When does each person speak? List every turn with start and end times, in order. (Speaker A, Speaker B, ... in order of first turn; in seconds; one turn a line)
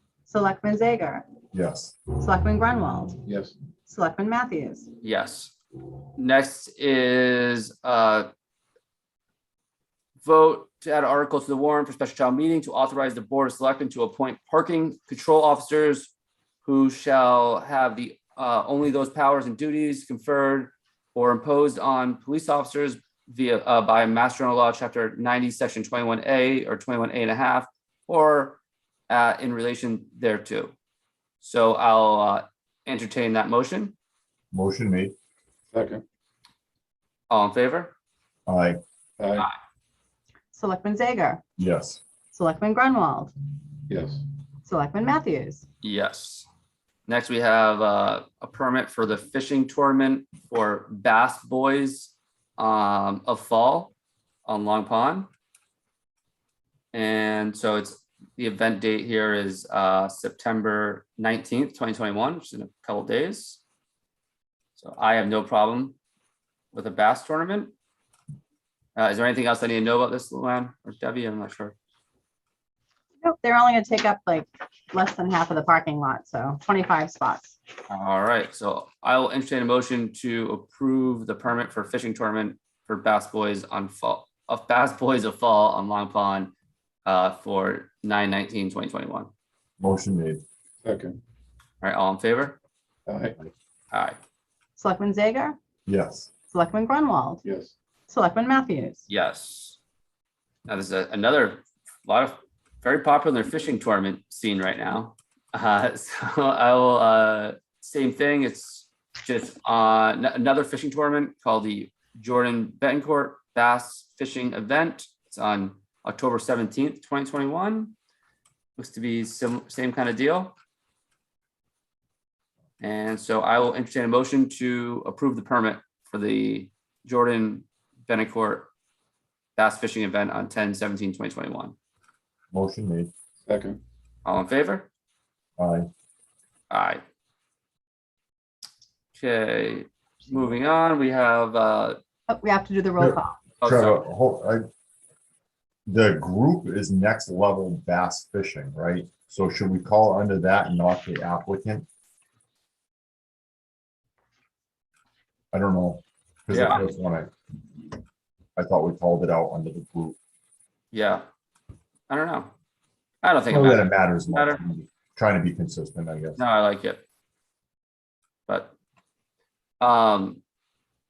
Speaker A: 0.3-1.2
Speaker B: 1.5-1.9
Speaker A: 2.2-3.2
Speaker C: 3.2-3.5
Speaker A: 3.9-4.9
Speaker D: 5.0-5.5
Speaker D: 6.2-8.3
Speaker D: 10.2-16.1
Speaker D: 16.6-30.7
Speaker D: 31.4-33.9
Speaker B: 34.5-35.1
Speaker C: 35.7-36.0
Speaker D: 37.3-37.9
Speaker B: 38.5-38.8
Speaker C: 39.2-39.5
Speaker A: 40.5-41.4
Speaker B: 41.6-42.0
Speaker A: 42.3-43.3
Speaker C: 43.9-44.2
Speaker A: 44.6-45.6
Speaker D: 45.8-46.5
Speaker D: 47.1-53.9
Speaker D: 54.5-55.3
Speaker D: 56.9-63.6
Speaker D: 64.8-66.0
Speaker D: 66.7-67.7
Speaker D: 69.0-71.7
Speaker A: 73.2-77.6
Speaker D: 77.9-86.5
Speaker D: 87.0-89.3
Speaker B: 89.8-90.4
Speaker C: 90.8-91.2
Speaker D: 91.8-92.5
Speaker C: 93.1-93.3
Speaker D: 93.9-94.2
Speaker A: 94.8-95.6
Speaker B: 95.9-96.3
Speaker A: 96.5-97.4
Speaker C: 97.4-97.7
Speaker A: 98.1-99.1
Speaker D: 99.1-99.8
Speaker D: 100.7-117.9
Speaker D: 118.8-120.5
Speaker D: 122.8-128.7
Speaker D: 129.6-131.7
Speaker B: 132.5-133.1
Speaker C: 133.4-133.8
Speaker D: 134.2-134.9
Speaker B: 135.6-135.9
Speaker D: 136.7-137.0
Speaker D: 139.1-142.0
Speaker A: 142.3-143.4
Speaker B: 143.0-144.6
Speaker D: 143.6-144.0
Speaker B: 145.9-151.8
Speaker B: 155.5-157.3
Speaker D: 156.5-156.8
Speaker B: 158.6-160.2
Speaker D: 160.9-161.2
Speaker D: 162.1-162.5
Speaker D: 163.2-164.6
Speaker B: 163.5-166.4
Speaker D: 166.4-167.0
Speaker D: 168.5-168.7
Speaker D: 169.8-170.4